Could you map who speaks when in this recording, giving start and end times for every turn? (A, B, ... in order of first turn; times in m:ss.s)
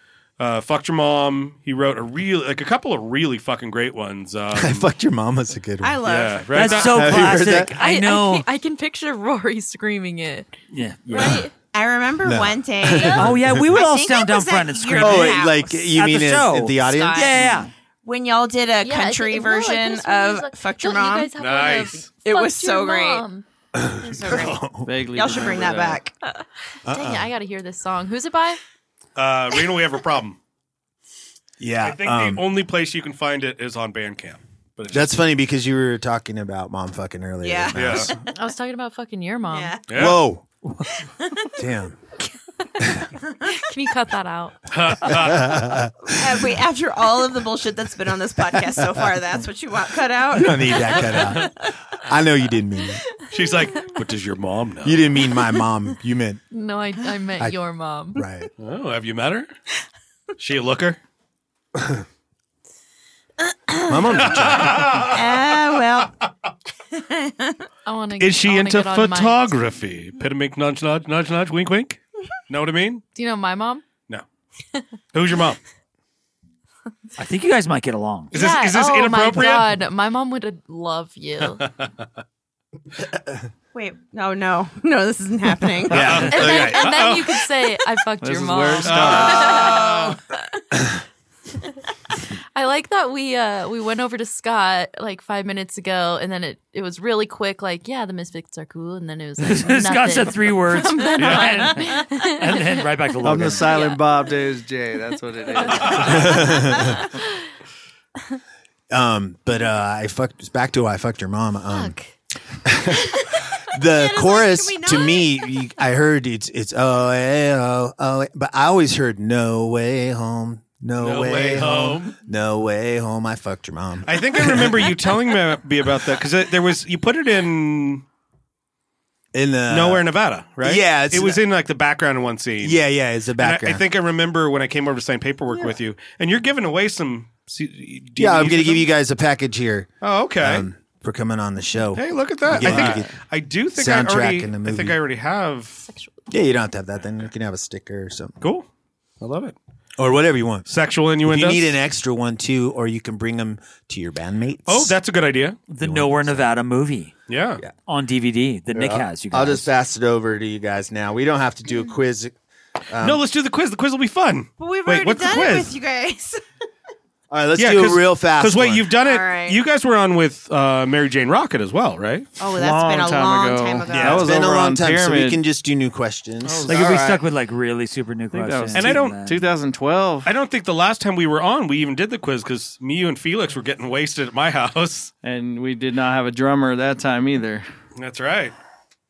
0:00.4-0:04.8 A
0:04.5-0:06.1 B
0:05.8-0:07.2 C
0:06.0-0:07.2 A
0:06.5-0:08.4 D
0:06.8-0:07.7 B
0:07.7-0:10.5 E
0:10.7-0:11.4 D
0:11.1-0:15.9 C
0:11.2-0:11.5 E
0:12.2-0:13.6 B
0:13.0-0:17.7 D
0:15.0-0:17.6 B
0:16.9-0:17.4 E
0:18.0-0:21.3 C
0:18.8-0:23.4 E
0:21.4-0:22.1 A
0:22.2-0:23.2 C
0:23.8-0:25.6 B
0:23.8-0:26.2 C
0:24.8-0:26.0 F
0:26.9-0:27.3 B
0:26.9-0:28.6 E
0:29.2-0:30.4 A
0:31.6-0:32.4 B
0:31.8-0:35.1 A
0:34.9-0:38.1 B
0:37.4-0:38.3 C
0:37.7-0:38.1 A
0:38.3-0:39.8 E
0:39.5-0:39.8 C
0:39.9-0:40.2 A
0:39.9-0:40.4 B
0:41.0-0:41.5 C
0:41.6-0:42.0 B
0:43.5-0:44.6 E
0:44.7-0:45.8 A
0:45.0-0:46.1 B
0:46.1-0:51.5 C
0:48.8-0:49.0 B
0:50.3-0:53.0 B
0:53.3-0:55.2 A
0:54.8-0:56.4 B
0:56.5-0:58.3 E
0:58.1-0:58.5 B
0:58.6-0:59.5 A
1:00.4-1:01.0 A
1:01.8-1:02.0 B
1:03.7-1:04.0 C
1:03.9-1:05.2 B
1:04.2-1:05.6 A
1:05.0-1:06.2 C
1:06.9-1:07.6 C
1:07.8-1:09.5 E
1:08.2-1:13.0 A
1:13.1-1:13.8 E
1:15.1-1:15.6 A
1:17.2-1:18.3 D
1:18.3-1:19.8 A
1:18.3-1:21.6 E
1:23.7-1:26.0 C
1:25.9-1:26.9 B
1:25.9-1:27.8 A
1:26.1-1:30.2 E
1:28.2-1:29.5 F
1:28.8-1:30.2 A
1:32.5-1:42.9 E
1:39.4-1:43.7 D
1:41.2-1:41.6 A
1:43.2-1:46.3 F
1:43.5-1:44.3 E
1:46.0-1:46.9 B
1:48.9-1:51.9 B
1:51.7-1:52.1 E
1:52.6-2:05.1 B
1:53.8-1:55.5 C
2:01.0-2:02.2 A
2:04.0-2:08.0 A
2:09.3-2:10.0 B
2:09.7-2:12.8 A
2:10.6-2:11.4 B
2:12.6-2:13.8 B
2:13.4-2:18.9 A
2:18.2-2:23.1 B
2:20.0-2:20.6 A
2:21.9-2:25.8 A
2:23.7-2:25.0 B
2:25.9-2:26.2 E
2:26.3-2:28.4 B
2:28.4-2:28.6 A
2:29.2-2:29.6 A
2:30.0-2:30.7 B
2:30.7-2:31.8 A
2:31.2-2:35.0 B
2:34.7-2:35.6 A
2:35.7-2:37.1 D
2:35.8-2:36.4 B
2:37.3-2:37.6 A
2:37.8-2:39.7 D
2:38.7-2:42.3 B
2:42.9-2:43.2 B
2:43.0-2:45.7 A
2:44.6-2:46.4 C
2:47.3-2:48.9 B
2:47.6-2:52.3 A
2:49.0-2:49.6 C
2:52.4-2:54.3 C
2:52.6-2:55.4 F
2:54.0-2:57.0 B
2:56.5-2:57.2 F
2:56.6-2:59.4 D
2:58.3-3:00.3 F
2:58.7-2:59.2 A
3:00.2-3:05.1 A
3:05.2-3:07.6 F
3:08.0-3:08.5 A